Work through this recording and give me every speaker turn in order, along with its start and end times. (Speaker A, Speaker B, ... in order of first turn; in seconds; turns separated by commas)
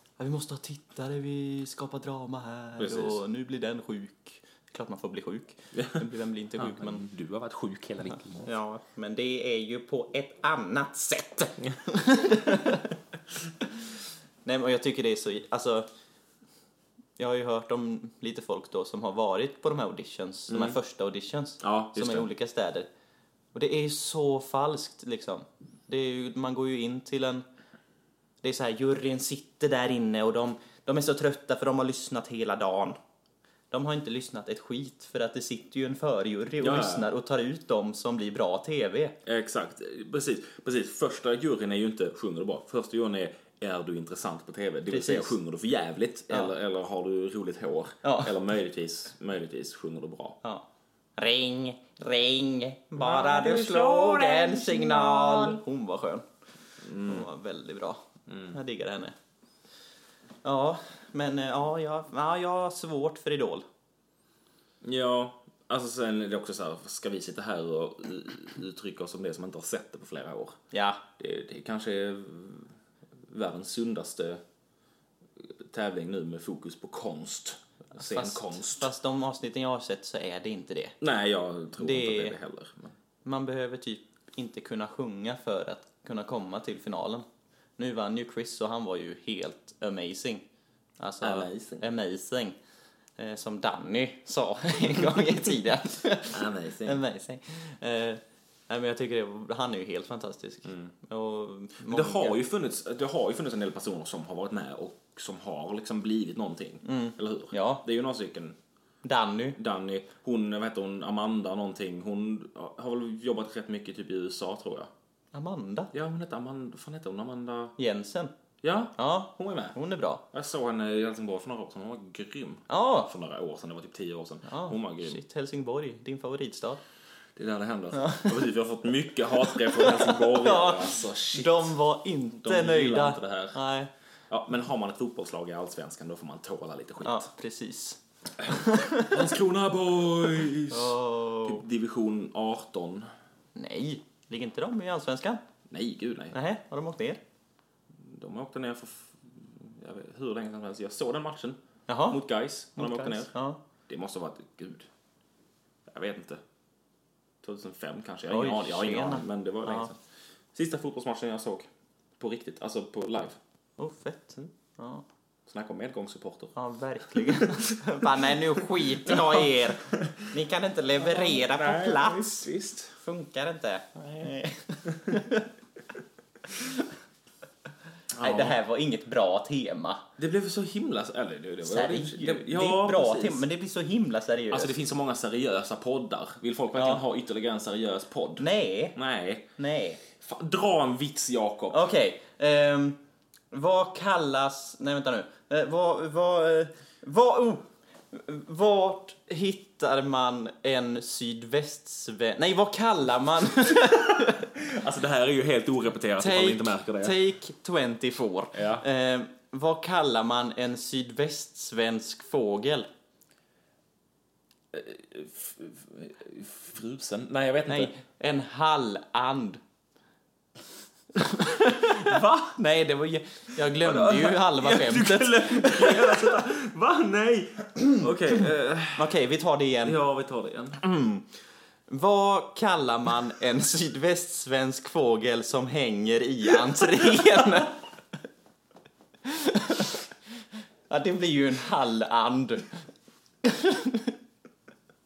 Speaker A: 0.2-7.0, Speaker B: 2.8-3.2, Speaker B: 5.8-6.0, Speaker B: 6.6-8.5, Speaker A: 8.4-12.9, Speaker A: 14.4-15.9, Speaker A: 17.2-22.9, Speaker B: 20.5-20.8, Speaker B: 21.6-22.3, Speaker A: 23.5-27.4, Speaker A: 28.4-33.0, Speaker A: 33.7-39.1, Speaker B: 36.6-37.1, Speaker B: 39.3-50.4, Speaker A: 44.9-45.4, Speaker A: 48.0-48.4, Speaker A: 51.2-56.2, Speaker B: 53.0-55.6, Speaker B: 56.8-57.3, Speaker A: 57.0-59.1, Speaker B: 58.3-58.6, Speaker A: 60.4-63.7, Speaker B: 64.8-70.6, Speaker A: 70.7-71.0, Speaker B: 71.2-74.4, Speaker B: 75.4-78.9, Speaker A: 78.0-81.0, Speaker B: 81.0-82.9, Speaker A: 81.8-82.4, Speaker A: 83.2-87.3, Speaker A: 87.8-90.5, Speaker A: 91.0-92.6, Speaker B: 91.2-91.8, Speaker A: 93.2-102.4, Speaker B: 96.3-97.0, Speaker B: 100.7-100.9, Speaker B: 101.8-108.6, Speaker A: 106.8-107.8, Speaker A: 109.0-109.6, Speaker B: 109.6-114.9, Speaker A: 115.3-115.9, Speaker B: 115.9-117.8, Speaker A: 117.8-118.3, Speaker B: 118.6-119.8, Speaker A: 119.0-120.2, Speaker B: 120.3-125.2, Speaker A: 122.7-123.1, Speaker A: 124.5-126.8, Speaker B: 127.4-131.8, Speaker A: 127.9-128.4, Speaker A: 129.4-133.9, Speaker B: 132.4-133.6, Speaker B: 134.3-137.3, Speaker A: 137.0-139.3, Speaker B: 138.5-143.1, Speaker A: 140.7-141.6, Speaker A: 143.6-145.4, Speaker B: 145.7-146.3, Speaker A: 146.3-147.2, Speaker B: 148.0-151.6, Speaker A: 151.9-152.2, Speaker B: 152.1-153.3, Speaker A: 152.8-153.6, Speaker B: 153.9-154.9, Speaker B: 155.9-156.4, Speaker B: 157.4-160.0, Speaker A: 158.3-159.9, Speaker B: 160.5-163.4, Speaker A: 163.8-165.0, Speaker B: 165.5-166.6, Speaker A: 166.6-172.5, Speaker B: 167.1-170.2, Speaker B: 171.0-172.9, Speaker A: 173.0-175.5, Speaker A: 176.6-176.9, Speaker B: 178.1-178.6, Speaker A: 178.2-180.0, Speaker B: 180.2-183.4, Speaker A: 181.7-184.8, Speaker B: 184.5-189.5, Speaker A: 186.8-187.0, Speaker A: 188.4-189.0, Speaker A: 189.6-190.0, Speaker B: 190.1-191.9, Speaker A: 191.7-193.0, Speaker A: 193.5-204.5, Speaker B: 203.8-207.2, Speaker A: 206.2-212.9, Speaker B: 208.5-208.8, Speaker B: 214.7-217.9, Speaker A: 217.7-219.6, Speaker A: 221.1-226.4, Speaker B: 221.8-222.6, Speaker B: 223.8-229.1, Speaker A: 229.0-230.0, Speaker B: 229.8-230.8, Speaker A: 230.8-231.3, Speaker A: 231.9-237.8, Speaker B: 237.0-237.4, Speaker A: 239.2-240.1, Speaker A: 240.9-242.8, Speaker A: 243.4-244.1